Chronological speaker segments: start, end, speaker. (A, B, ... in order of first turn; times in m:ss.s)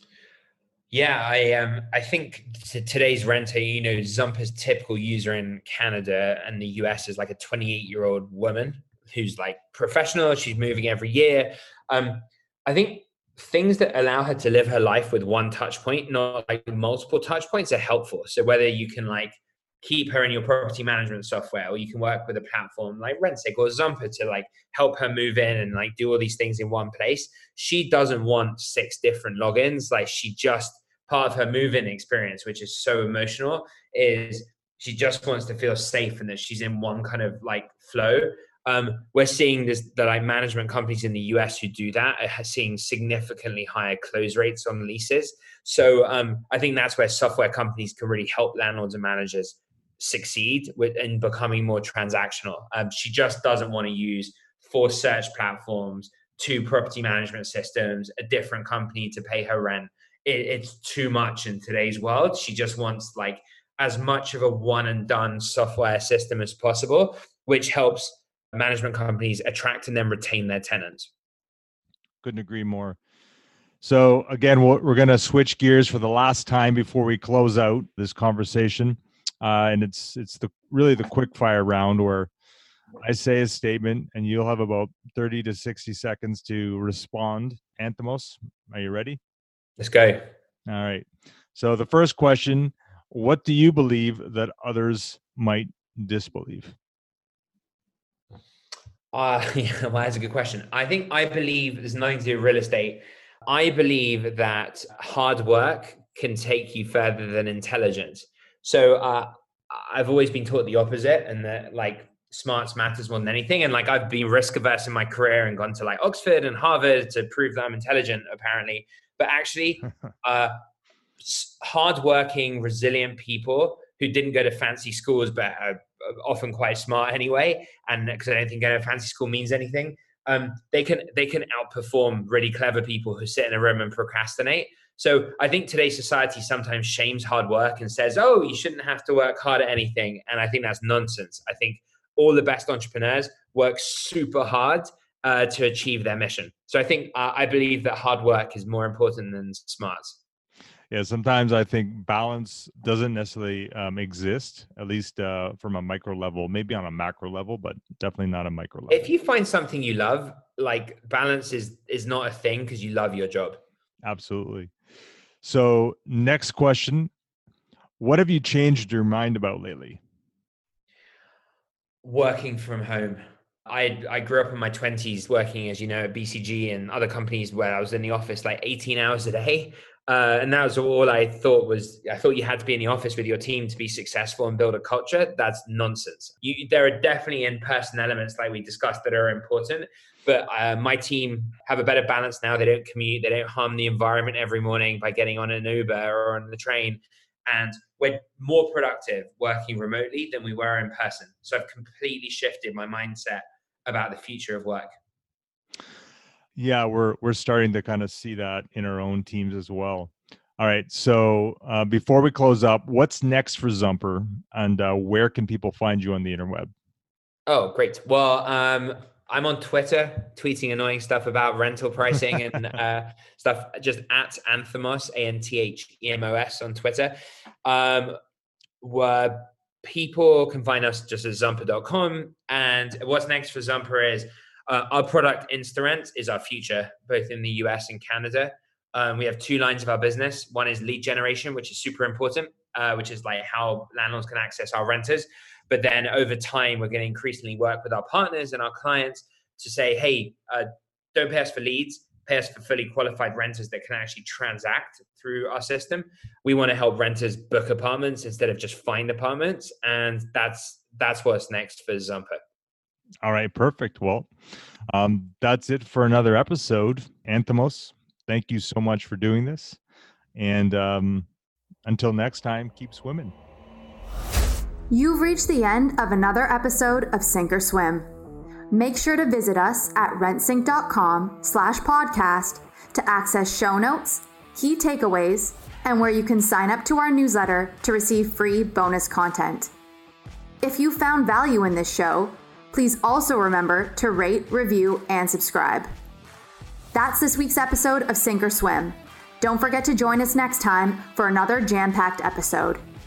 0:00.9-1:11.1 A
1:12.2-1:13.0 B
1:13.8-1:22.3 B
1:23.0-1:29.2 B
1:29.8-1:30.3 A
1:30.7-1:36.7 B
1:39.1-2:00.6 A
2:01.2-2:30.2 A
2:30.9-2:39.1 B
2:38.9-2:43.6 A
2:44.0-2:44.7 B
2:45.4-2:47.1 B
2:48.0-2:50.0 B
2:52.0-3:24.9 A
3:26.6-3:36.7 B
3:37.5-3:48.2 A
3:48.8-4:22.4 A
4:23.2-4:24.3 B
4:24.9-4:29.8 B
4:30.3-4:31.3 B
4:31.8-4:33.3 B
4:34.9-4:38.1 C
4:38.7-4:49.7 C
4:50.6-4:55.9 C
4:56.9-5:02.8 C